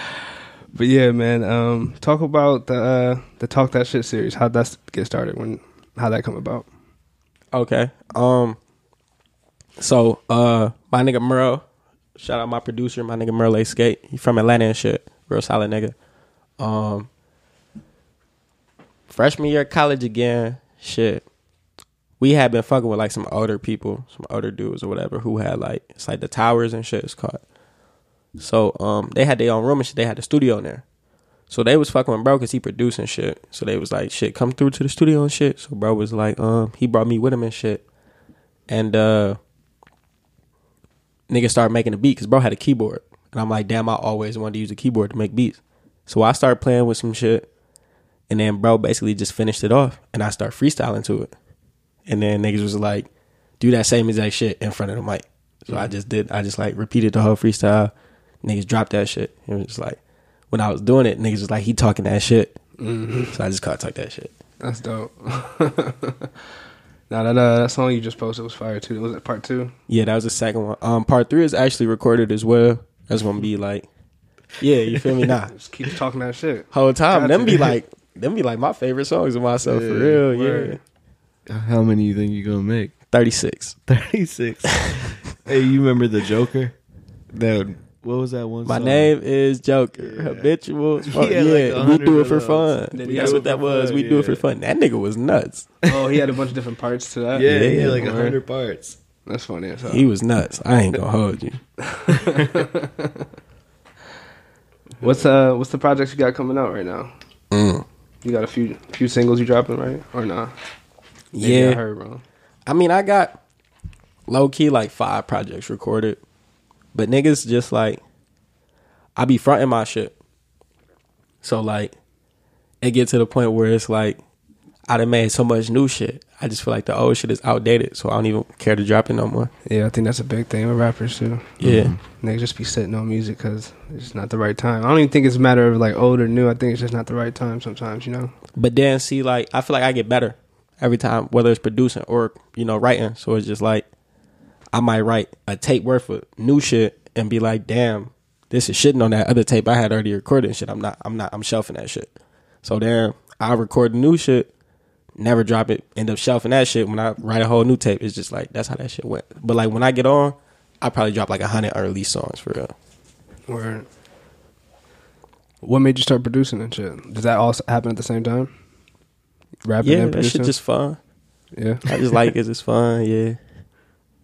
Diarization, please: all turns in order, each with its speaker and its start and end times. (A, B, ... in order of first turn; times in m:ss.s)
0:00.8-0:06.7 A
0:07.5-0:08.6 B
0:09.8-0:11.6 B
0:12.2-0:16.0 B
0:16.6-0:17.1 B
0:19.1-0:21.2 B
0:22.2-0:27.4 B
0:28.4-0:30.8 B
0:31.5-0:37.8 B
0:38.7-0:39.4 B
0:41.3-0:47.5 B
0:48.3-0:51.3 B
0:52.1-0:53.1 B
0:53.6-0:57.9 B
0:58.4-1:00.0 B
1:00.5-1:02.6 B
1:02.8-1:03.4 A
1:03.3-1:04.3 B
1:04.6-1:06.3 A
1:07.1-1:09.7 A
1:09.9-1:13.9 B
1:14.6-1:15.5 B
1:15.5-1:17.8 A
1:16.7-1:20.8 B
1:19.6-1:20.2 C
1:20.3-1:20.8 A
1:21.5-1:22.9 C
1:23.1-1:23.8 B
1:23.9-1:26.8 C
1:24.8-1:25.0 B
1:27.3-1:29.1 C
1:28.6-1:35.7 B
1:30.0-1:30.5 C
1:31.0-1:34.4 C
1:32.9-1:33.6 A
1:35.9-1:38.4 A
1:37.3-1:39.0 C
1:37.4-1:38.0 B
1:39.3-1:40.1 A
1:39.9-1:41.6 B
1:41.8-1:43.2 A
1:45.0-1:47.1 A
1:47.5-1:47.8 B
1:48.2-1:50.5 A
1:51.3-1:51.8 B
1:51.4-1:52.2 A
1:52.7-1:53.4 B
1:54.3-1:56.2 B
1:56.9-1:58.0 B
1:59.2-2:00.1 B
2:01.4-2:02.0 B
2:02.8-2:04.2 B
2:04.9-2:09.5 B
2:09.7-2:18.3 A
2:11.6-2:12.0 B
2:11.6-2:12.0 C
2:18.6-2:23.8 B
2:24.7-2:32.1 B
2:32.6-2:34.5 B
2:35.2-2:42.7 B
2:43.5-2:43.9 A
2:45.6-2:48.5 A
2:49.6-2:50.5 A
2:49.8-2:51.0 B
2:51.6-2:51.9 A
2:51.9-2:53.4 B